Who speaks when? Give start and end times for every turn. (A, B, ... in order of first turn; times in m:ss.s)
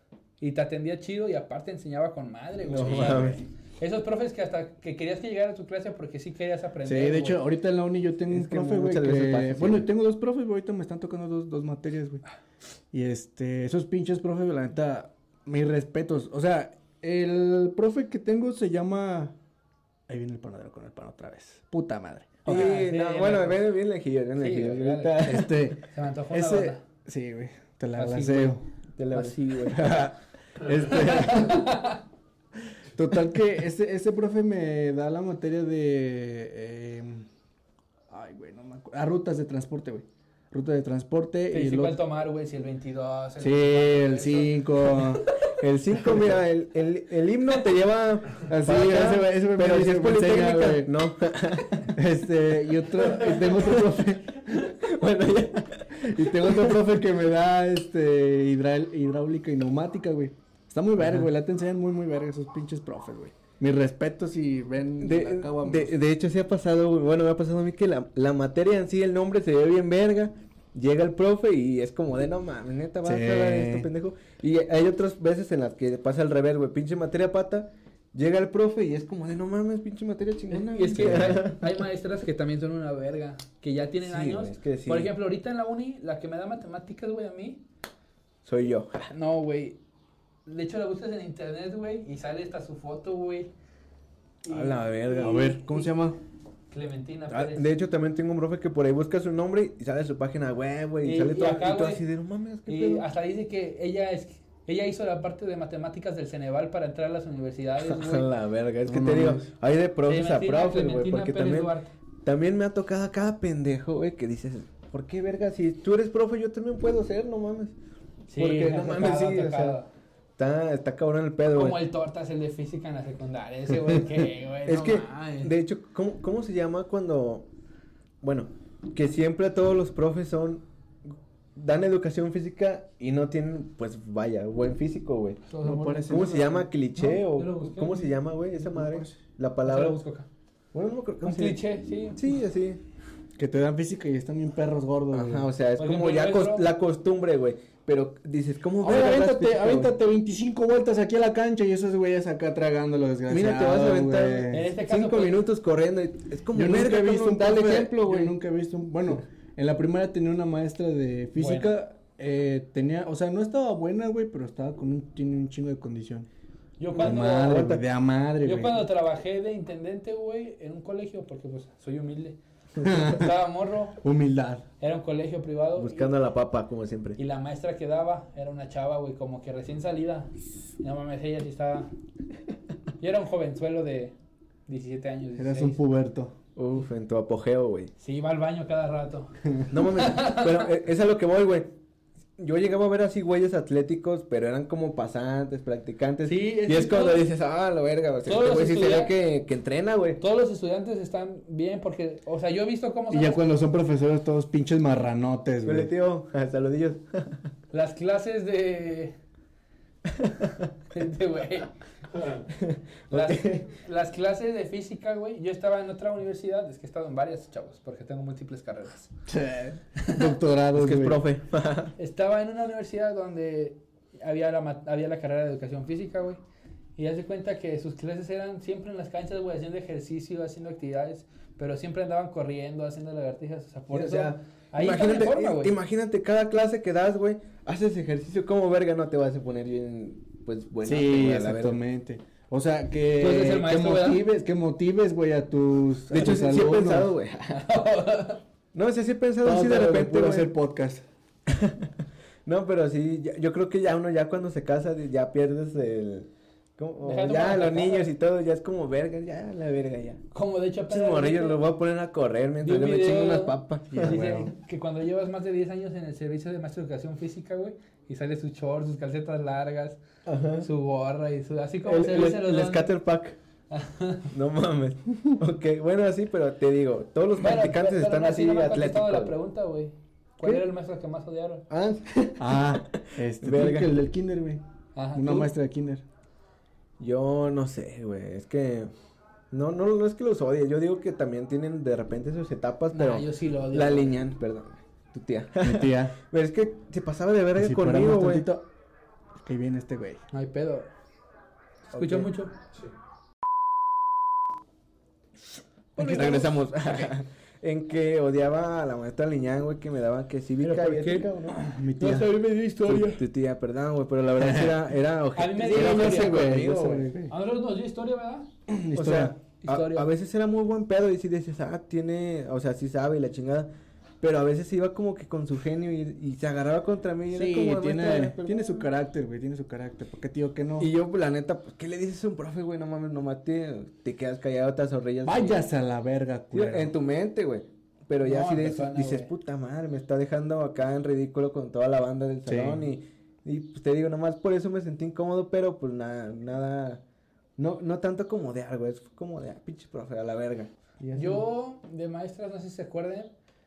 0:00.4-0:07.4 A
0:02.7-0:03.4 B
0:06.8-0:12.2 C
0:08.3-0:09.8 B
0:12.9-0:19.3 C
0:20.1-0:22.7 C
0:22.4-0:25.5 B
0:22.4-0:23.7 A
0:24.4-0:26.8 A
0:25.2-0:28.6 C
0:28.0-0:28.6 A
0:29.0-0:29.9 B
0:29.1-0:29.9 A
0:29.7-0:31.6 C
0:30.9-0:32.0 A
0:32.9-0:37.3 C
0:38.1-0:42.0 C
0:41.5-0:45.4 A
0:43.4-0:45.3 C
0:45.6-0:51.9 B
0:48.4-0:50.9 C
0:51.9-0:54.5 C
0:53.4-0:53.7 B
0:54.6-0:56.8 B
0:55.9-1:06.0 C
1:01.0-1:01.2 B
1:05.0-1:21.7 B
1:13.0-1:13.9 C
1:20.5-1:27.6 A
1:21.0-1:21.4 C
1:24.0-1:25.1 B
1:28.4-1:29.1 B
1:29.1-1:29.8 A
1:30.4-1:33.5 A
1:34.4-1:35.9 A
1:34.5-1:35.6 B
1:35.2-1:36.2 C
1:36.7-1:37.6 A
1:37.3-1:43.0 B
1:41.0-1:42.0 A
1:42.7-1:48.3 A
1:47.8-1:51.7 B
1:48.8-1:49.5 C
1:50.1-1:51.9 A
1:52.2-1:57.7 B
1:58.3-1:59.9 A
1:58.3-1:59.8 B
2:00.4-2:01.8 B
2:01.5-2:05.5 A
2:04.7-2:07.4 B
2:08.2-2:10.6 B
2:11.6-2:15.4 B
2:15.5-2:18.2 A
2:15.6-2:16.5 C
2:16.1-2:20.0 B
2:18.6-2:19.2 C
2:19.6-2:20.3 A
2:20.7-2:21.6 B
2:21.2-2:22.4 A
2:22.1-2:22.8 B
2:23.4-2:25.5 C
2:25.1-2:29.9 B
2:25.8-2:26.7 A
2:28.8-2:34.7 C
2:33.3-2:38.3 B
2:34.5-2:35.4 A
2:36.5-2:46.3 C
2:41.4-2:41.7 A
2:46.8-2:47.6 A
2:47.0-2:47.8 B
2:47.0-2:48.8 C
2:48.4-2:54.0 A
2:52.8-2:53.3 C
2:54.0-2:54.6 C
2:54.8-2:56.1 A
2:55.8-2:57.2 B
2:57.2-3:01.9 A
3:03.0-3:04.1 A
3:04.7-3:05.8 A
3:05.4-3:06.3 C
3:06.6-3:07.9 B
3:08.0-3:10.7 A
3:09.7-3:11.7 B
3:12.4-3:20.2 B
3:16.2-3:17.2 A
3:18.2-3:19.1 A
3:20.2-3:23.4 A
3:23.1-3:25.9 C
3:25.6-3:27.4 B
3:27.7-3:29.1 A
3:30.9-3:31.7 A
3:32.6-3:33.7 B
3:33.1-3:39.1 A
3:39.3-3:41.2 C
3:40.0-3:40.3 A
3:40.7-3:41.9 B
3:42.0-3:46.4 A
3:47.0-3:55.7 A
3:53.9-4:01.8 B
4:00.8-4:07.1 C
4:03.2-4:04.2 A
4:06.1-4:07.7 B
4:07.6-4:08.4 A
4:08.7-4:10.5 B
4:09.4-4:11.0 C
4:11.5-4:11.9 B
4:12.4-4:20.2 B
4:17.0-4:18.1 A
4:20.3-4:21.6 A
4:20.9-4:24.2 B
4:22.6-4:30.0 A
4:23.9-4:24.5 C
4:30.2-4:30.7 B
4:30.6-4:32.9 A
4:31.8-4:33.3 B
4:33.7-4:34.3 A
4:34.3-4:39.4 B
4:37.4-4:41.6 A
4:41.7-4:44.0 B
4:42.4-4:44.6 C
4:44.9-4:45.5 A
4:45.1-4:46.0 C
4:47.0-4:48.9 B
4:49.5-4:58.4 B
4:52.9-4:54.2 A
4:55.6-4:56.1 C
4:57.6-4:58.6 C
4:59.4-5:00.2 C
5:00.3-5:00.9 A
5:01.9-5:02.3 B
5:01.9-5:02.5 A
5:06.0-5:07.1 A
5:06.0-5:11.6 B
5:06.0-5:06.4 C
5:10.6-5:11.3 A
5:11.5-5:13.2 C
5:12.0-5:12.4 A
5:12.9-5:17.1 B
5:14.4-5:14.9 C
5:15.4-5:16.5 A
5:15.6-5:17.3 C
5:17.3-5:18.5 A
5:18.7-5:19.3 C
5:18.9-5:23.7 B
5:19.6-5:20.1 A
5:24.2-5:28.9 B
5:27.3-5:30.9 C
5:30.8-5:35.6 B
5:35.2-5:36.9 C
5:36.5-5:47.0 B
5:38.2-5:39.3 A
5:42.4-5:42.8 C
5:47.6-5:50.7 B
5:51.0-5:51.4 C
5:51.1-5:53.3 A